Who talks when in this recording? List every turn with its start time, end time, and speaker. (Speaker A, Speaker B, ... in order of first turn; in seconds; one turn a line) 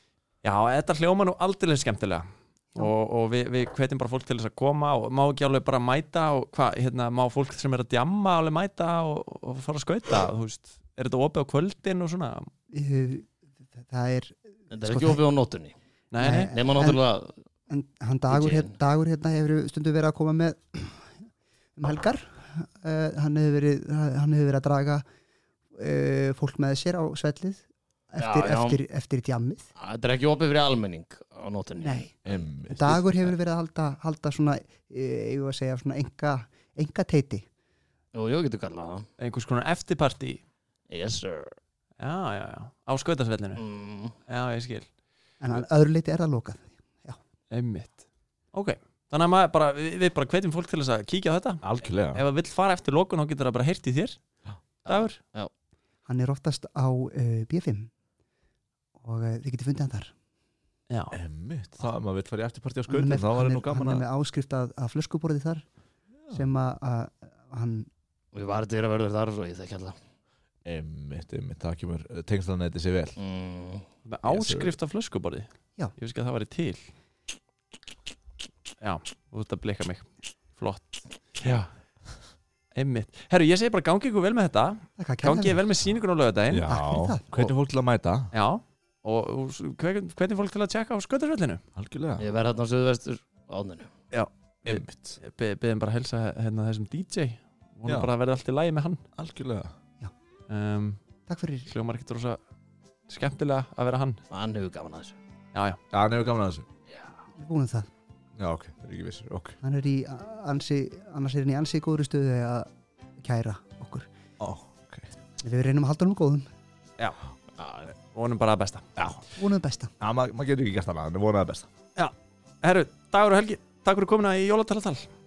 Speaker A: 0.4-12.5
Speaker B: 12.7-13.3
Speaker B: 13.9-15.2
Speaker C: 14.7-15.7
Speaker A: 16.1-16.5
Speaker B: 16.2-17.0
Speaker C: 16.5-17.3
Speaker B: 17.7-21.1
Speaker C: 18.3-18.7
Speaker B: 21.8-25.0
Speaker B: 25.8-29.6
Speaker C: 28.2-28.8
Speaker C: 29.8-32.4
Speaker B: 31.8-32.1
Speaker D: 32.2-33.0
Speaker B: 32.7-37.4
Speaker C: 38.1-39.1
Speaker A: 39.2-40.4
Speaker C: 40.9-41.5
Speaker A: 42.0-43.6
Speaker C: 43.6-44.1
Speaker A: 44.2-44.9
Speaker B: 45.4-47.2
Speaker A: 47.5-54.2
Speaker D: 51.6-52.2
Speaker A: 54.9-55.2
Speaker C: 54.9-55.5
Speaker B: 56.1-57.9
Speaker B: 59.0-60.1
Speaker A: 60.9-61.1
Speaker D: 61.1-64.0
Speaker B: 62.9-65.6
Speaker B: 66.3-67.9
Speaker C: 68.3-69.9
Speaker D: 70.7-73.2
Speaker C: 73.2-73.8
Speaker A: 74.0-76.8
Speaker D: 74.2-74.7
Speaker A: 78.8-81.7
Speaker A: 82.7-86.7
Speaker B: 85.0-85.5
Speaker D: 86.5-88.3
Speaker B: 86.7-87.2
Speaker A: 88.3-91.6
Speaker D: 91.8-92.2
Speaker C: 92.2-93.9
Speaker A: 94.1-99.0
Speaker D: 94.6-95.2
Speaker D: 99.2-99.7
Speaker A: 100.5-101.0
Speaker B: 101.3-101.7
Speaker A: 101.7-102.4
Speaker A: 103.1-104.2
Speaker C: 104.3-105.2
Speaker A: 105.5-105.8
Speaker D: 105.9-106.7
Speaker B: 107.4-107.9
Speaker D: 108.4-109.6
Speaker B: 109.6-112.7
Speaker B: 113.2-114.1
Speaker D: 114.4-115.1
Speaker B: 115.4-116.5
Speaker C: 117.6-117.8
Speaker A: 118.1-118.8
Speaker D: 119.0-119.2
Speaker B: 119.3-119.9
Speaker D: 120.0-121.7
Speaker A: 122.0-125.1